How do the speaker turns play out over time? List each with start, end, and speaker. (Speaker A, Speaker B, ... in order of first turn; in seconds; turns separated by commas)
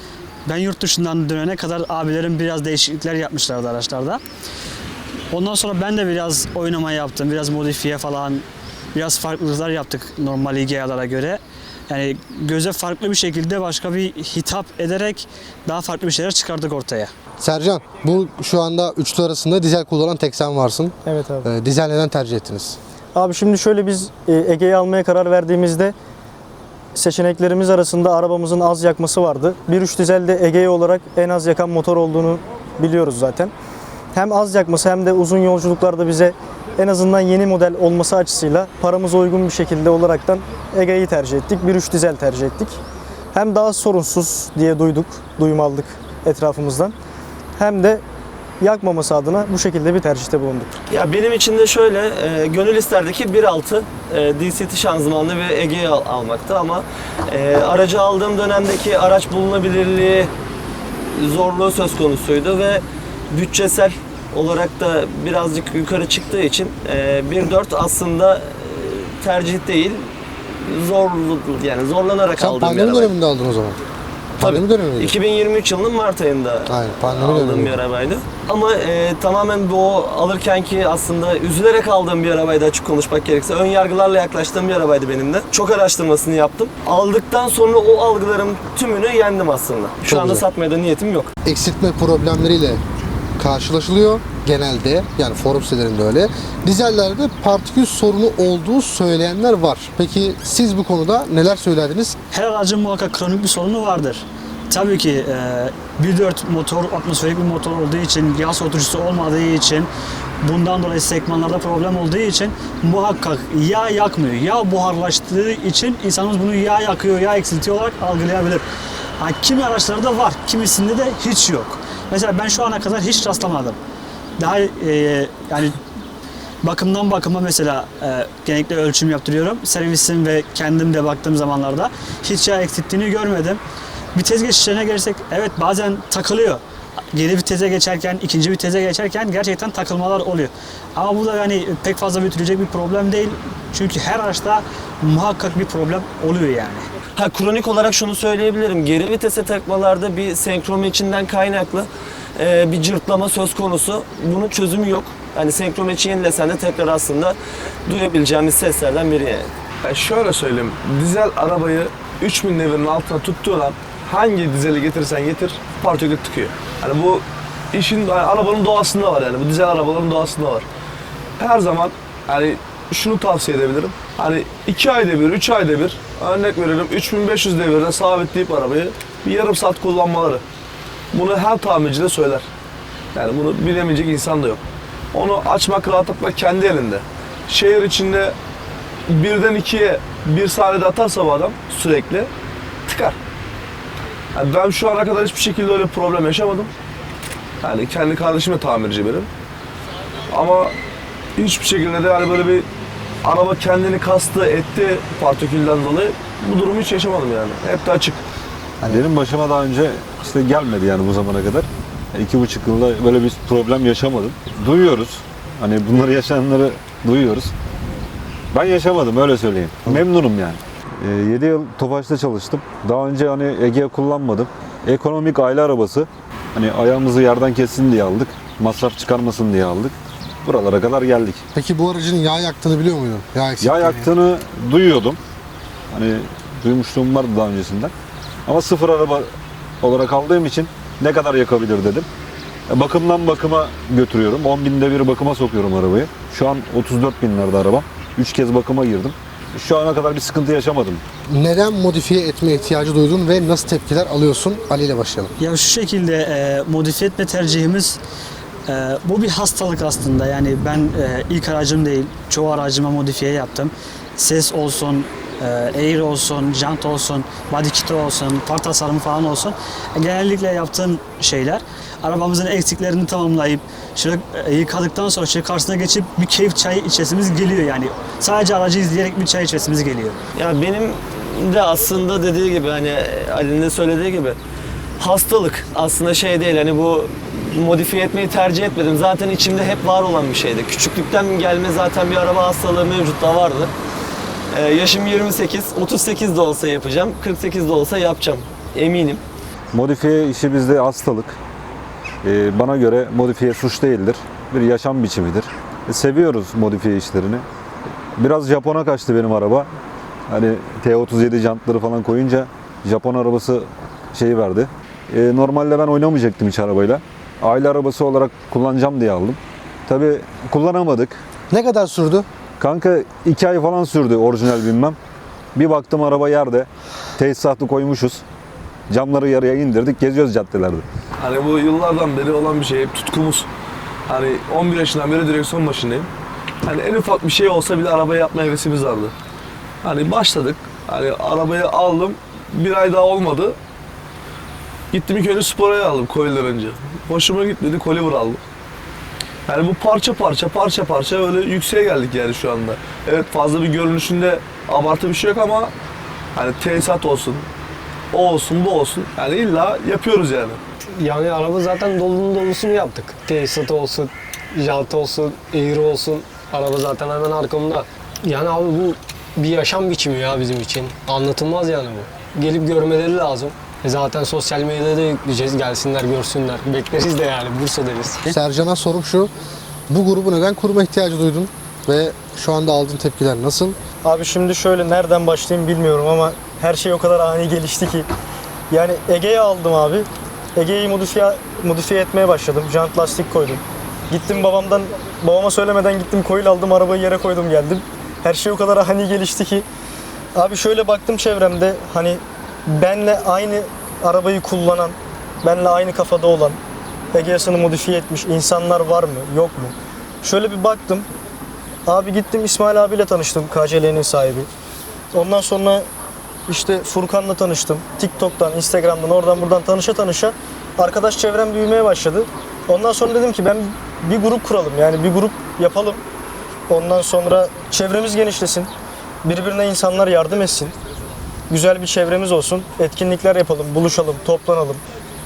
Speaker A: 0.5-4.2, Speaker A: 5.3-17.1, Speaker B: 17.4-22.8, Speaker C: 21.0-21.5, Speaker C: 23.1-25.9, Speaker C: 26.9-33.5, Speaker C: 34.1-42.8, Speaker C: 43.3-46.9, Speaker C: 47.6-48.0, Speaker C: 48.6-50.8, Speaker D: 50.9-60.3, Speaker D: 61.1-73.1, Speaker B: 72.3-73.8, Speaker B: 74.4-75.2, Speaker D: 74.4-91.3, Speaker B: 76.7-77.7, Speaker B: 90.1-90.4, Speaker B: 91.4-92.8, Speaker B: 93.4-102.2, Speaker A: 102.3-109.9, Speaker A: 110.4-118.6, Speaker A: 119.2-123.8, Speaker A: 124.4-125.8, Speaker A: 126.6-133.6, Speaker A: 134.1-136.6, Speaker A: 137.1-146.8, Speaker D: 147.2-157.3, Speaker D: 157.9-159.5, Speaker E: 159.8-170.7, Speaker E: 171.4-180.4, Speaker E: 181.1-182.4, Speaker E: 183.1-184.6, Speaker E: 185.1-188.3, Speaker E: 189.1-192.3, Speaker E: 192.8-193.2, Speaker E: 194.3-196.7, Speaker E: 197.6-199.3, Speaker E: 200.3-200.7, Speaker E: 201.4-202.7, Speaker E: 203.2-208.2, Speaker F: 208.9-217.5, Speaker F: 218.5-231.4, Speaker B: 231.5-234.1, Speaker F: 233.6-235.2, Speaker F: 235.9-237.9, Speaker F: 238.4-239.3, Speaker F: 239.8-242.1, Speaker F: 242.7-251.0, Speaker B: 251.3-255.3, Speaker A: 255.4-258.0, Speaker A: 258.7-280.2, Speaker D: 280.4-284.4, Speaker D: 285.0-293.7, Speaker D: 294.5-299.2, Speaker F: 299.7-301.4, Speaker F: 302.2-307.4, Speaker F: 308.2-309.7, Speaker F: 310.3-321.2, Speaker B: 321.5-322.3, Speaker F: 322.6-325.0, Speaker F: 325.5-328.2, Speaker F: 328.9-330.9, Speaker E: 331.2-333.5, Speaker E: 334.1-336.1, Speaker E: 336.6-339.1, Speaker E: 339.8-343.6, Speaker E: 344.9-348.4, Speaker E: 349.5-355.7, Speaker E: 356.3-357.5, Speaker E: 358.1-360.6, Speaker G: 361.0-378.2, Speaker B: 378.3-379.3, Speaker B: 379.9-383.8, Speaker C: 384.0-388.1, Speaker C: 388.7-399.6, Speaker C: 400.3-406.6, Speaker C: 407.1-411.1, Speaker C: 411.9-414.5, Speaker C: 415.1-415.9, Speaker C: 416.5-426.0, Speaker C: 426.7-428.7, Speaker C: 429.2-430.7, Speaker C: 431.5-434.8